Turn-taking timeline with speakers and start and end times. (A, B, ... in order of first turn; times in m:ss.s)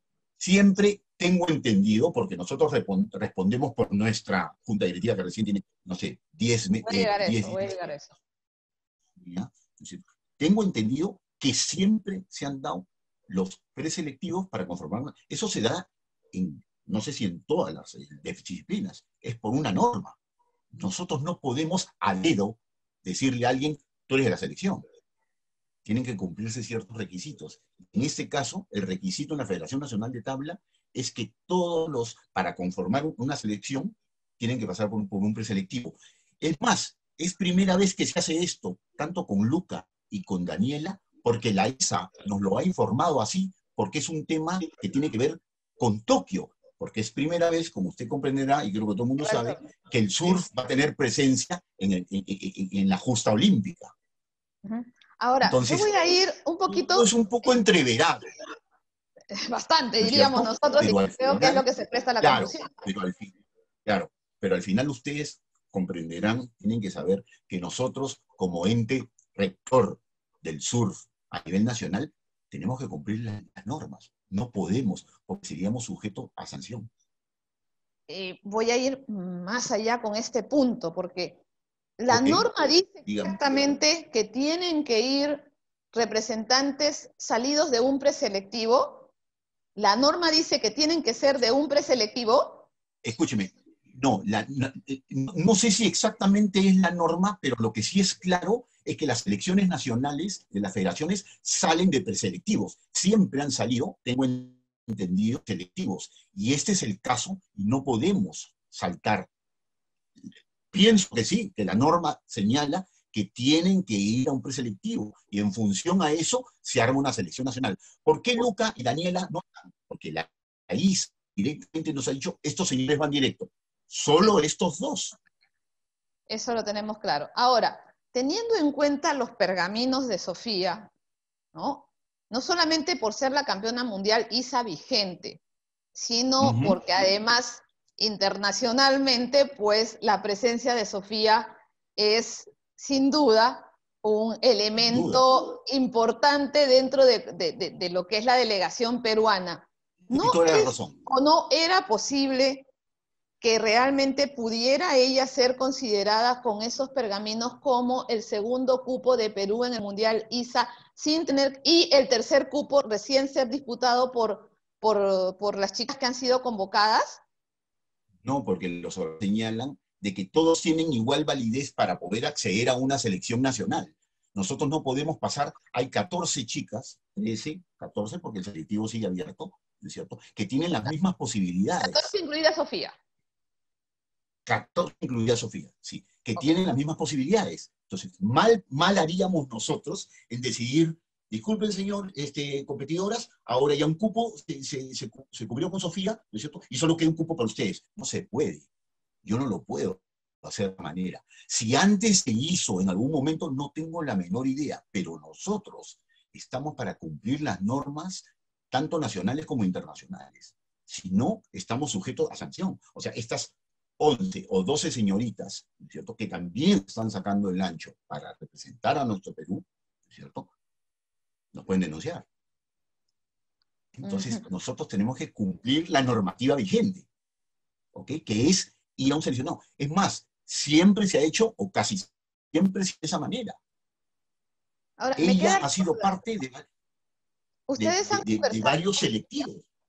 0:00.4-0:07.6 A
0:06.8-0:08.1 B
0:09.2-0:20.2 A
0:20.7-0:24.8 A
0:25.8-0:53.9 A
0:49.2-0:49.6 B
0:54.6-0:57.5 B
0:55.4-0:55.9 A
0:56.7-0:58.2 A
0:59.3-1:02.7 B
1:00.0-1:01.6 A
1:02.2-1:03.3 A
1:03.8-1:16.9 A
1:18.1-1:21.4 B
1:22.0-1:29.1 B
1:22.1-1:22.5 A
1:23.0-1:23.7 A
1:29.8-1:32.7 B
1:33.0-1:49.3 A
1:50.7-2:05.2 A
2:06.3-2:10.9 B
2:11.5-2:15.4 B
2:16.0-2:32.7 B
2:16.4-2:16.8 A
2:24.8-2:25.2 A
2:30.1-2:31.0 A
2:33.4-2:47.2 B
2:48.2-3:02.1 A
3:01.8-3:03.0 B
3:04.5-3:18.6 A
3:19.2-3:40.5 A
3:41.5-3:42.2 A
3:44.0-3:47.1 A
3:44.0-3:44.4 B
3:47.9-3:53.6 A
3:55.0-3:56.2 B
3:55.2-3:56.7 A
3:57.7-3:58.8 B
3:57.8-3:59.7 A